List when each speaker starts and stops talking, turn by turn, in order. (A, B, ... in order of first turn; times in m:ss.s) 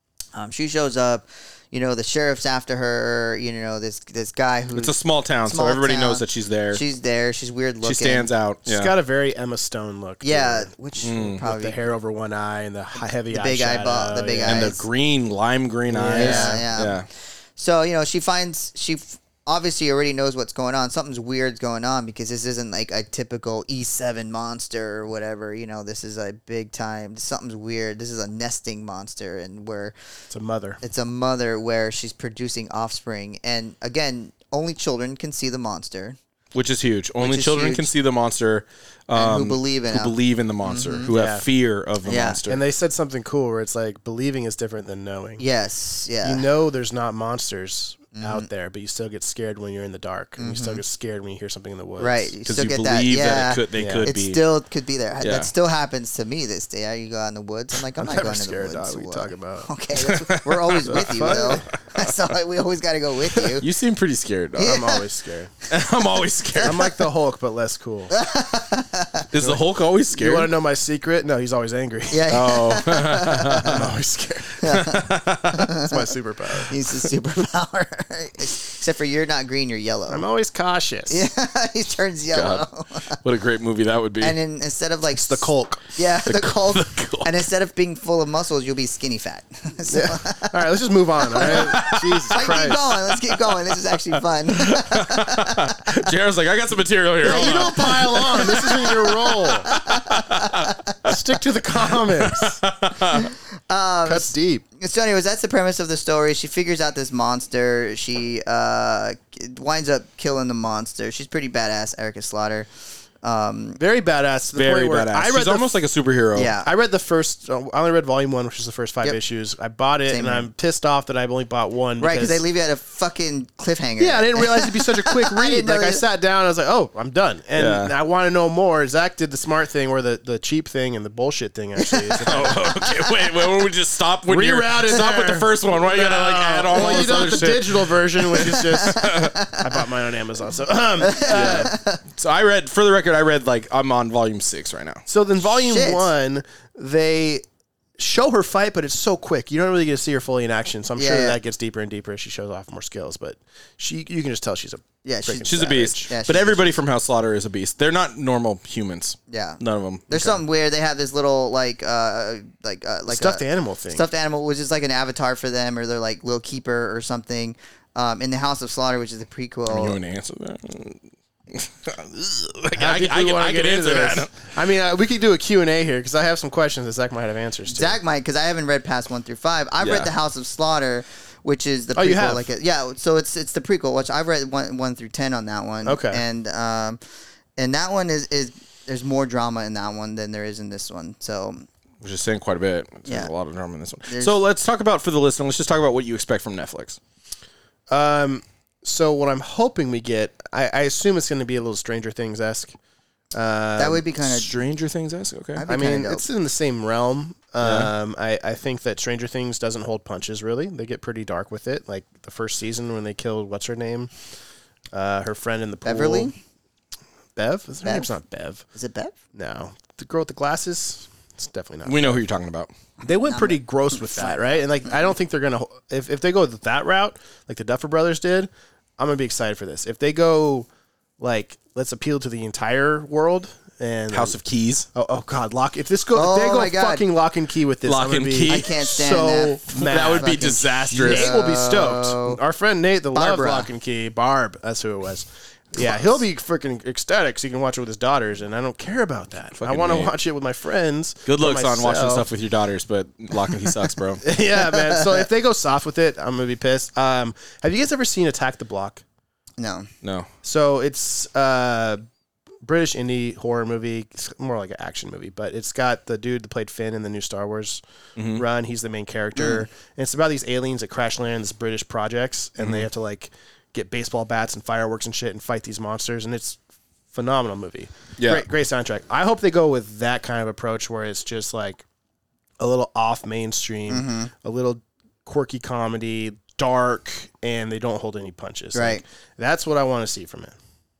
0:00.3-0:08.3 A
0:04.7-0:06.8 B
0:07.8-0:08.9 B
0:08.7-0:14.8 C
0:10.2-0:11.8 A
0:11.0-0:11.4 B
0:13.0-0:14.8 A
0:14.5-0:17.1 B
0:15.9-0:16.7 C
0:16.0-0:30.0 A
0:30.3-0:30.8 C
0:30.8-0:36.2 A
0:36.5-0:42.6 B
0:37.2-0:37.9 A
0:39.2-0:41.1 A
0:41.1-0:41.4 C
0:42.0-0:42.4 A
0:42.5-0:45.4 C
0:45.4-0:46.4 A
0:46.2-0:52.3 C
0:48.2-0:48.5 A
0:50.4-0:50.8 A
0:52.0-1:03.7 A
0:52.4-0:54.4 B
0:53.8-0:54.1 C
0:55.2-0:55.5 B
0:58.0-0:59.7 C
0:59.9-1:02.2 B
1:00.9-1:01.7 C
1:03.6-1:04.9 B
1:04.6-1:05.1 A
1:04.6-1:05.5 C
1:05.7-1:06.8 B
1:06.6-1:06.9 A
1:06.6-1:08.2 C
1:08.1-1:09.3 A
1:09.3-1:10.5 B
1:10.1-1:12.3 C
1:12.1-1:13.9 A
1:12.3-1:13.9 B
1:13.6-1:14.6 C
1:14.6-1:20.3 A
1:14.6-1:15.8 B
1:15.8-1:16.7 C
1:20.1-1:21.2 C
1:21.1-1:23.2 A
1:22.3-1:22.6 B
1:23.2-1:24.4 B
1:24.2-1:30.6 A
1:25.1-1:25.9 C
1:26.2-1:27.3 B
1:29.9-1:32.8 C
1:31.3-1:35.8 A
1:31.4-1:41.1 B
1:37.2-1:39.0 A
1:37.2-1:39.7 C
1:39.6-1:41.0 A
1:41.0-1:42.6 C
1:42.2-1:43.3 B
1:43.1-1:52.7 A
1:44.0-1:44.6 C
1:53.2-1:53.8 A
1:53.8-1:55.8 C
1:54.5-1:56.6 B
1:56.4-1:56.7 A
1:56.6-2:02.4 C
2:00.1-2:00.5 A
2:02.0-2:06.0 A
2:04.0-2:12.7 C
2:07.6-2:07.9 B
2:12.2-2:19.3 B
2:14.3-2:21.7 C
2:16.8-2:17.3 A
2:18.7-2:19.6 A
2:21.0-2:22.0 A
2:21.3-2:25.0 B
2:25.1-2:27.4 C
2:25.5-2:26.1 A
2:28.0-2:36.1 C
2:31.0-2:31.4 A
2:35.0-2:36.8 A
2:35.4-2:40.4 B
2:39.3-2:50.0 A
2:43.1-2:44.0 C
2:49.7-2:54.3 B
2:52.8-2:58.0 C
2:57.7-3:07.0 A
2:59.8-3:00.1 B
3:02.0-3:02.5 C
3:05.8-3:06.2 C
3:07.6-3:11.7 A
3:12.0-3:17.0 B
3:14.1-3:14.4 A
3:17.9-3:22.8 C
3:23.3-3:24.0 C
3:23.8-3:24.5 A
3:24.2-3:25.6 B
3:25.6-3:26.2 A
3:25.7-3:34.1 C
3:27.6-3:27.9 B
3:34.9-3:36.3 C
3:35.8-3:36.4 A
3:37.4-3:38.6 C
3:38.8-3:39.2 A
3:39.4-3:42.2 C
3:41.8-3:42.7 B
3:43.0-3:50.7 C
3:43.2-3:44.9 A
3:51.2-3:54.4 C
3:54.1-3:54.9 B
3:54.9-4:12.3 C
3:56.2-3:57.0 A
3:57.8-3:59.0 B
3:58.5-4:02.4 A
3:59.7-4:01.3 B
4:03.2-4:03.7 A
4:09.6-4:10.1 B
4:11.3-4:14.2 B
4:14.2-4:19.0 C
4:14.7-4:15.0 A
4:19.6-4:19.9 A
4:20.0-4:20.3 B
4:20.4-4:22.0 C
4:22.6-4:27.8 C
4:28.2-4:28.4 B
4:28.3-4:36.6 C
4:29.4-4:29.6 A
4:32.6-4:32.9 B
4:37.1-4:41.8 C
4:38.2-4:38.4 B
4:42.6-4:50.6 C
4:43.9-4:44.3 A
4:48.7-4:49.0 A